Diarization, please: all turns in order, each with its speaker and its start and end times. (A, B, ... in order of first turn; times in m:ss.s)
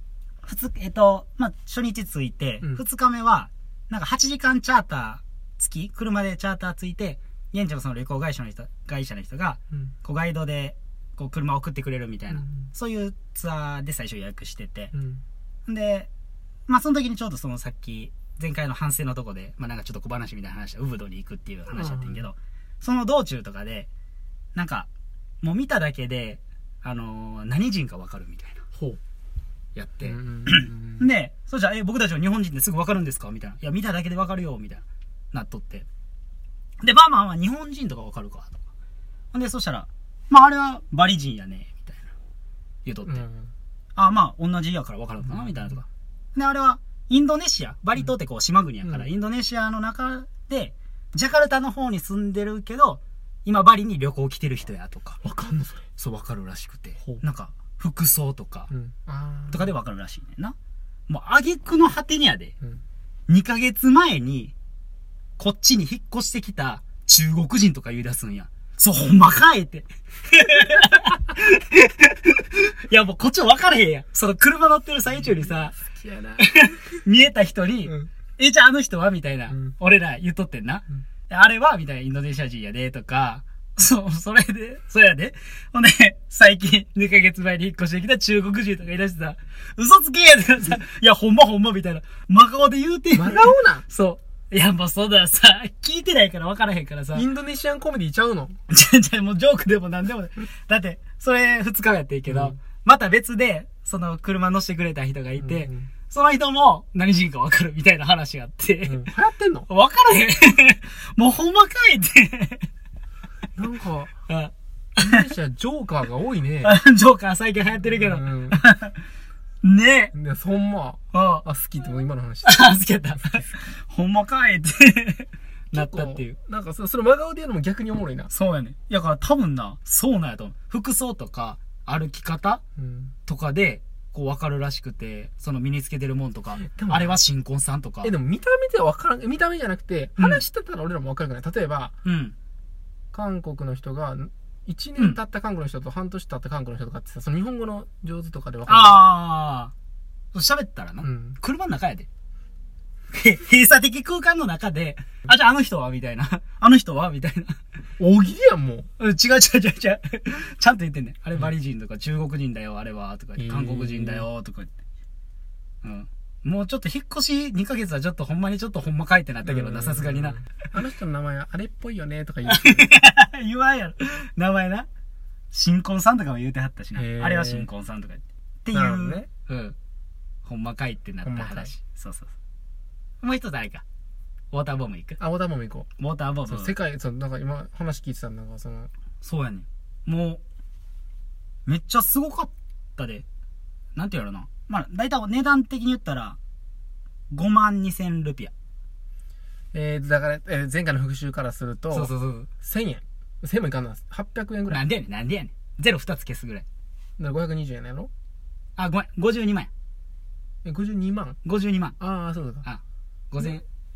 0:00.4-0:14.9 A
0:12.3-0:12.7 B
0:14.9-0:15.2 B
0:15.7-0:16.1 A
0:16.7-0:23.9 A
0:21.7-0:22.3 B
0:24.6-0:24.9 A
0:25.4-0:28.6 A
0:29.8-0:35.9 A
0:30.0-0:31.1 B
0:36.8-0:38.6 A
0:39.3-0:42.1 A
0:42.8-0:43.2 A
0:43.0-0:43.5 B
0:44.0-0:55.2 A
0:45.2-0:45.7 B
0:55.2-0:55.9 B
0:56.0-0:58.7 A
0:58.7-0:59.7 B
0:59.5-1:00.6 A
1:01.1-1:02.5 A
1:03.3-1:04.5 A
1:05.4-1:15.8 A
1:15.1-1:16.8 B
1:16.4-1:37.3 A
1:33.1-1:33.9 B
1:37.1-1:38.6 B
1:38.7-1:49.0 A
1:42.3-1:42.6 B
1:45.4-1:45.9 B
1:48.8-1:49.7 B
1:49.7-1:52.7 A
1:53.6-1:54.1 B
1:54.3-1:55.2 A
1:55.0-1:56.7 B
1:56.6-1:59.0 A
1:57.8-1:58.6 B
1:59.6-2:00.1 A
2:00.1-2:02.6 B
2:01.1-2:01.4 A
2:02.4-2:06.3 A
2:05.7-2:08.3 B
2:08.3-2:12.6 A
2:12.8-2:13.1 B
2:13.3-2:18.1 A
2:16.6-2:17.2 B
2:18.0-2:22.0 B
2:22.0-2:22.4 A
2:23.1-2:29.0 B
2:28.7-2:29.7 A
2:30.3-2:32.1 A
2:31.0-2:31.4 B
2:33.1-2:37.6 A
2:38.0-2:38.9 B
2:39.0-2:44.8 A
2:43.4-2:44.3 B
2:45.8-2:50.4 A
2:49.4-2:52.9 B
2:52.5-2:54.9 A
2:55.5-2:59.8 A
2:57.0-2:57.7 B
2:58.7-2:59.3 B
3:00.4-3:02.3 A
3:01.2-3:01.7 B
3:03.2-3:03.8 A
3:04.5-3:05.2 A
3:05.2-3:05.9 B
3:06.0-3:06.7 A
3:06.5-3:08.9 B
3:09.2-3:10.4 A
3:11.7-3:13.2 A
3:14.0-3:16.4 A
3:17.3-3:18.5 A
3:19.7-3:24.8 B
3:21.9-3:22.5 A
3:24.7-3:26.6 A
3:27.2-3:28.1 B
3:28.8-3:29.7 A
3:30.6-3:31.4 B
3:31.4-3:32.0 A
3:32.0-3:32.7 B
3:32.6-3:33.6 A
3:33.4-3:33.6 B